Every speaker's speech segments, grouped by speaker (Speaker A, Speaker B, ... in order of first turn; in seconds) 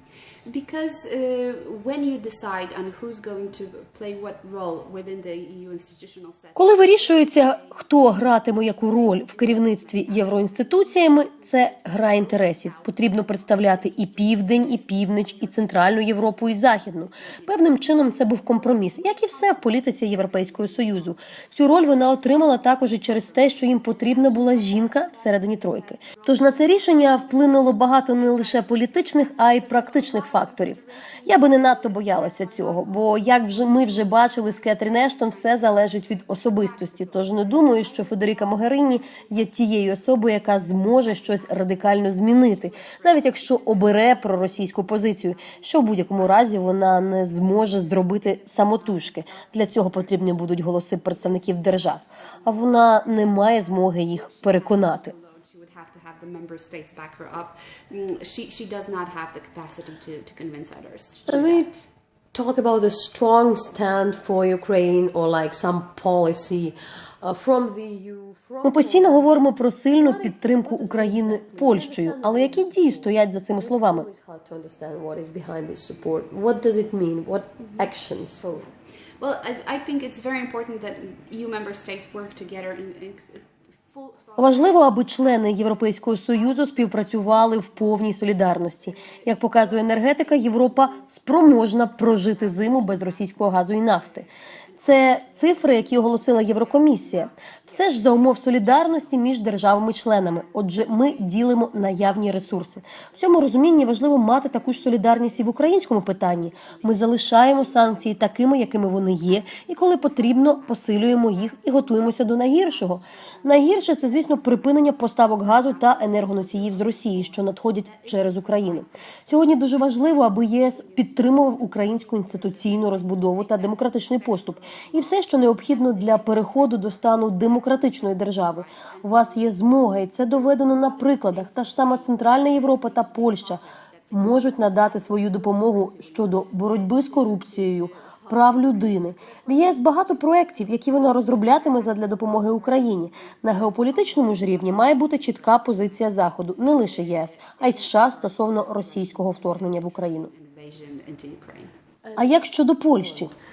Speaker A: 0.5-21.1, 21.9-39.8, 40.7-46.9, 47.7-61.7, 77.6-77.9, 79.2-85.8, 86.3-99.1, 100.4-101.4, 102.1-108.3, 109.4-151.7
Speaker B: 6.6-55.1, 68.6-74.1, 84.4-94.3, 94.8-133.6, 134.1-150.3, 152.2-153.3
Speaker C: 61.3-69.4, 69.9-78.7, 152.1-153.3